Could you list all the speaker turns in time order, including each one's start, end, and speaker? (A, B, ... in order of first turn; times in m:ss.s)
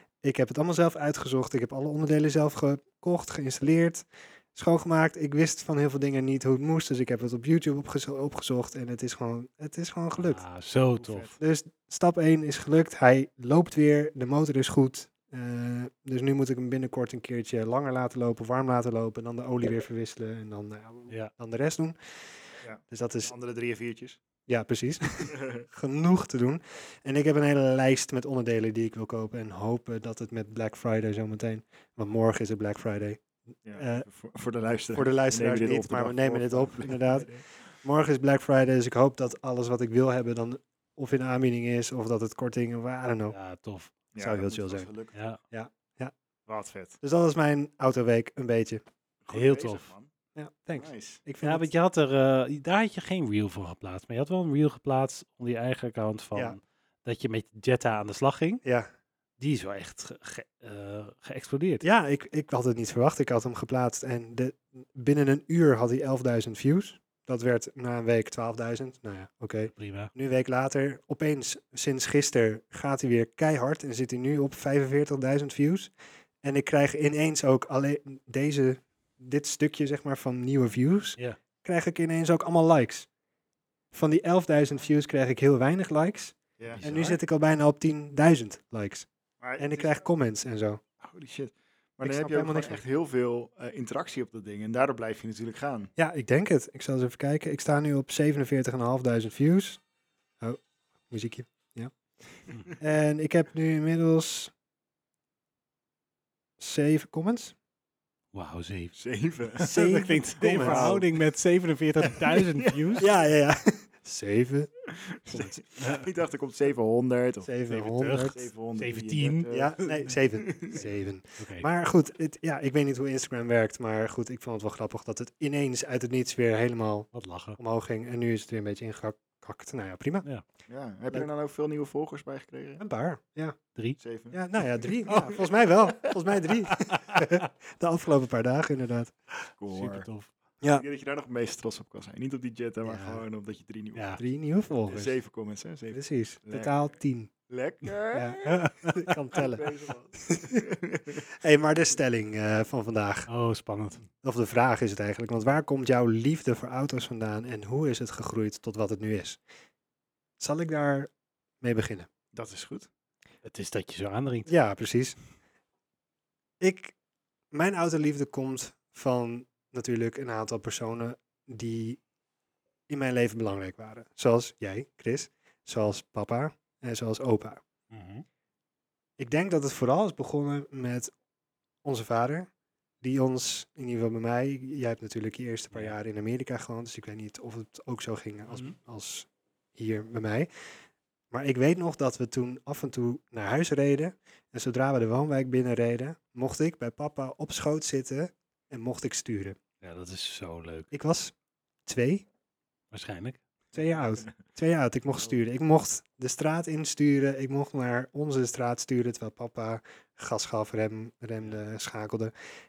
0:00.2-0:10.4 A
0:10.2-0:11.4 B
0:11.0-0:11.3 C
0:11.4-0:22.0 A
0:22.6-0:24.2 C
0:22.9-0:23.3 A
0:24.5-0:33.2 A
0:25.3-0:25.6 C
0:33.6-0:37.4 C
0:33.7-0:34.0 A
0:34.9-0:37.3 A
0:37.8-0:43.4 A
0:43.3-0:43.9 B
0:44.1-0:45.2 C
0:44.2-0:44.9 A
0:45.1-0:45.4 B
0:45.5-0:46.1 A
0:46.5-0:47.0 C
0:47.0-0:48.8 A
0:49.2-0:50.1 C
0:49.3-0:49.9 B
0:50.4-0:51.7 A
0:50.8-0:51.2 C
0:51.4-0:58.6 B
0:58.6-0:58.9 A
0:59.4-1:01.8 B
1:01.8-1:15.9 A
1:09.8-1:10.1 B
1:16.4-1:23.1 A
1:23.9-1:29.1 A
1:26.6-1:26.8 C
1:26.7-1:27.2 B
1:29.4-1:30.0 C
1:29.6-1:30.8 A
1:31.0-1:35.9 C
1:32.0-1:32.8 A
1:36.0-1:39.8 A
1:40.4-1:41.9 A
1:42.8-1:44.5 A
1:46.6-1:47.6 A
1:48.3-1:49.0 B
1:49.0-1:49.7 C
1:49.5-1:53.1 B
1:49.6-1:51.0 A
1:50.6-1:51.1 C
1:52.6-1:53.0 C
1:53.0-1:54.7 A
1:54.9-2:00.8 C
1:55.3-1:55.6 A
1:55.8-1:56.1 B
1:57.4-1:58.4 A
1:57.7-1:59.5 B
1:59.5-2:10.2 A
2:00.8-2:01.7 B
2:07.1-2:07.6 B
2:10.7-2:12.8 C
2:12.8-2:13.6 A
2:14.0-2:16.1 C
2:14.3-2:19.1 A
2:16.8-2:17.4 B
2:19.6-2:20.1 C
2:19.7-2:20.3 B
2:20.7-2:24.2 C
2:22.8-2:23.2 A
2:24.0-2:24.2 B
2:24.2-2:25.2 A
2:24.9-2:26.9 C
2:25.9-2:27.3 A
2:27.5-2:28.6 C
2:28.1-2:29.7 A
2:29.3-2:31.2 C
2:30.2-2:30.6 A
2:31.3-2:33.3 A
2:33.3-2:34.0 B
2:34.2-2:39.4 A
2:40.4-2:42.1 A
2:42.3-2:42.9 C
2:43.4-2:44.5 B
2:44.5-2:45.2 A
2:46.6-2:46.9 A
2:47.5-2:52.0 A
2:52.9-2:57.6 A
2:57.9-2:58.2 B
2:59.2-3:01.1 A
3:01.8-3:02.5 A
3:03.0-3:10.5 A
3:05.7-3:06.0 B
3:08.5-3:08.8 B
3:11.3-3:19.6 A
3:19.8-3:20.9 B
3:20.9-3:21.3 A
3:21.9-3:22.3 A
3:22.9-3:23.4 B
3:23.7-3:32.3 A